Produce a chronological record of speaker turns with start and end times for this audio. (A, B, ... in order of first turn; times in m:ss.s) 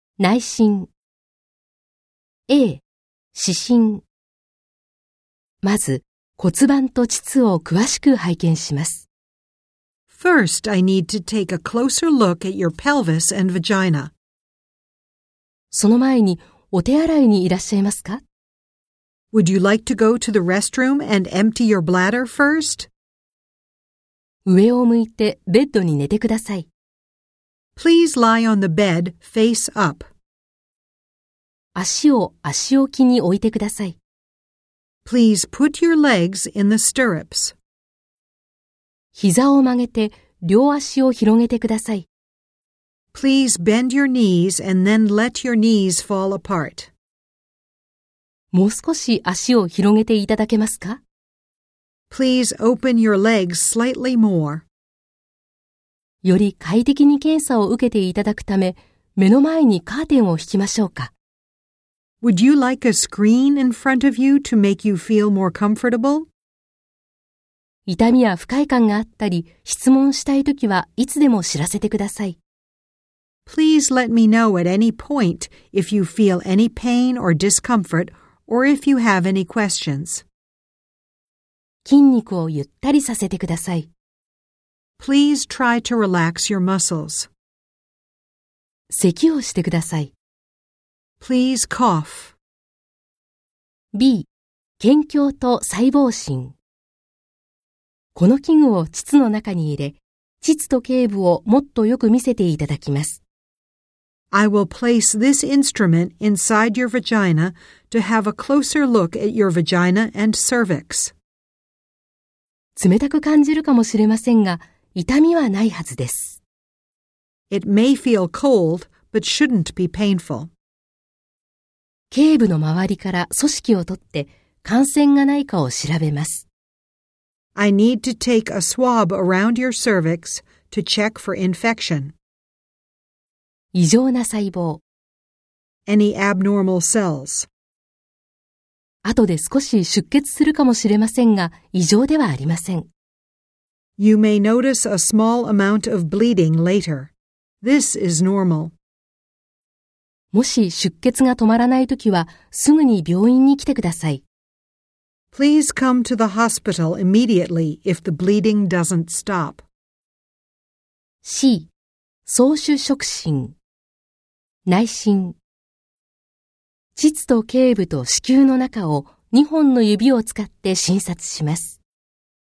0:00.2-0:00.9 A
0:02.5-0:02.8 A
0:03.3-0:04.0 A
0:05.6-0:09.1 A
0:10.1-0:14.1 B
0:15.7-0:18.2 A
0:19.3-0:22.9 B
0:24.4-0:26.7 A
0:27.8-0:30.1 B
0:31.7-0:34.0 A
0:35.0-0:37.5 B
0:39.1-0:42.0 A
0:43.1-0:46.9 B
0:48.5-0:51.0 A
0:52.1-0:54.6 B
0:56.2-1:01.1 A
1:02.2-1:06.3 B
1:07.8-1:12.4 A
1:13.4-1:20.2 B
1:21.8-1:23.9 A
1:25.0-1:27.3 B
1:28.9-1:30.1 A
1:31.2-1:32.4 B
1:33.9-1:34.3 A
1:34.8-1:36.6 A
1:38.1-1:43.2 A
1:44.3-1:51.1 B
1:52.8-1:56.4 A
1:57.5-2:00.5 B
2:02.1-2:06.4 A
2:07.5-2:12.1 B
2:13.7-2:14.8 A
2:15.8-2:17.5 B
2:19.0-2:22.9 A
2:24.0-2:27.1 B
2:27.6-2:28.7 B
2:30.3-2:34.2 A
2:35.3-2:39.6 B
2:41.2-2:41.7 A
2:42.2-2:43.5 A
2:44.6-2:45.4 A
2:47.0-2:51.8 A